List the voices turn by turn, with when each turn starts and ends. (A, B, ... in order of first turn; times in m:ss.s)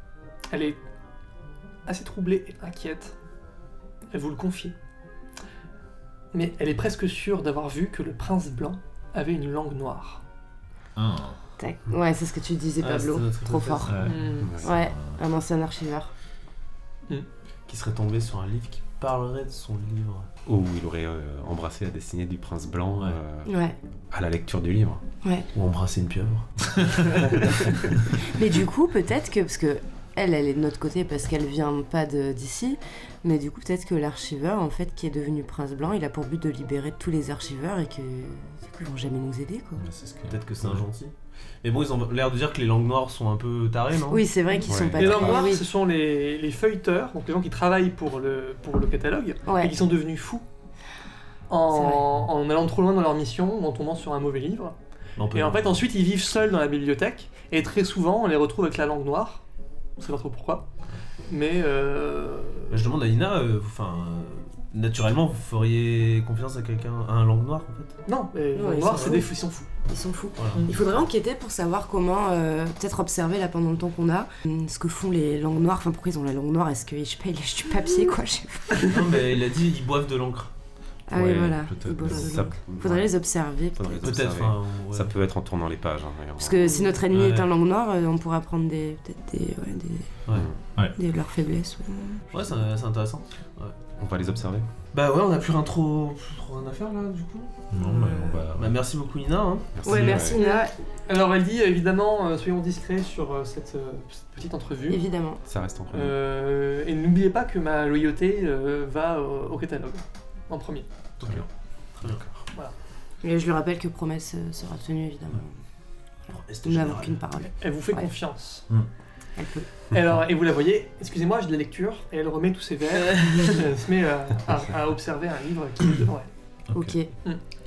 0:00.5-0:00.8 A
0:01.9-0:03.2 A
0:04.1-0:04.8 A
0:06.3-0:10.2 A
0:11.0-0:11.4 B
0:11.6-0:16.1 C
0:12.8-0:14.1 D
0:13.9-0:15.2 B
0:14.0-0:14.5 A
0:14.4-0:14.7 E
0:17.7-0:20.3 D
0:20.5-0:23.5 E
0:23.5-0:23.8 C
0:24.1-0:25.0 E
0:25.2-0:25.5 C
0:25.5-0:27.6 D
0:28.2-0:39.9 C
0:39.8-0:40.8 B
0:40.3-0:44.3 D
0:44.1-0:45.7 C
0:44.7-0:45.2 E
0:44.9-0:50.4 A
0:49.5-0:49.8 C
0:51.5-0:54.8 A
0:51.7-0:52.1 C
0:55.2-0:55.6 D
0:55.3-0:59.4 A
1:00.0-1:00.7 A
1:01.3-1:02.8 A
1:02.7-1:08.0 D
1:08.1-1:09.7 A
1:08.6-1:09.3 C
1:09.8-1:19.2 C
1:10.4-1:11.0 D
1:18.8-1:20.5 D
1:21.1-1:24.1 C
1:21.1-1:22.5 B
1:22.1-1:23.1 E
1:23.8-1:26.8 E
1:24.0-1:25.1 D
1:26.4-1:30.1 C
1:27.1-1:27.5 D
1:31.0-1:32.3 C
1:32.3-1:33.8 D
1:34.0-1:34.7 E
1:34.9-1:40.3 D
1:37.7-1:38.8 B
1:39.8-1:40.4 E
1:39.8-1:40.7 C
1:40.3-1:45.0 A
1:44.9-1:45.4 C
1:45.5-1:46.2 E
1:45.9-1:50.9 A
1:51.2-1:51.5 D
1:53.2-1:55.5 C
1:56.3-1:57.2 D
1:56.6-1:58.1 C
1:57.4-1:58.7 A
1:59.4-1:59.7 C
1:59.9-2:06.3 A
2:06.7-2:07.0 B
2:06.7-2:07.1 C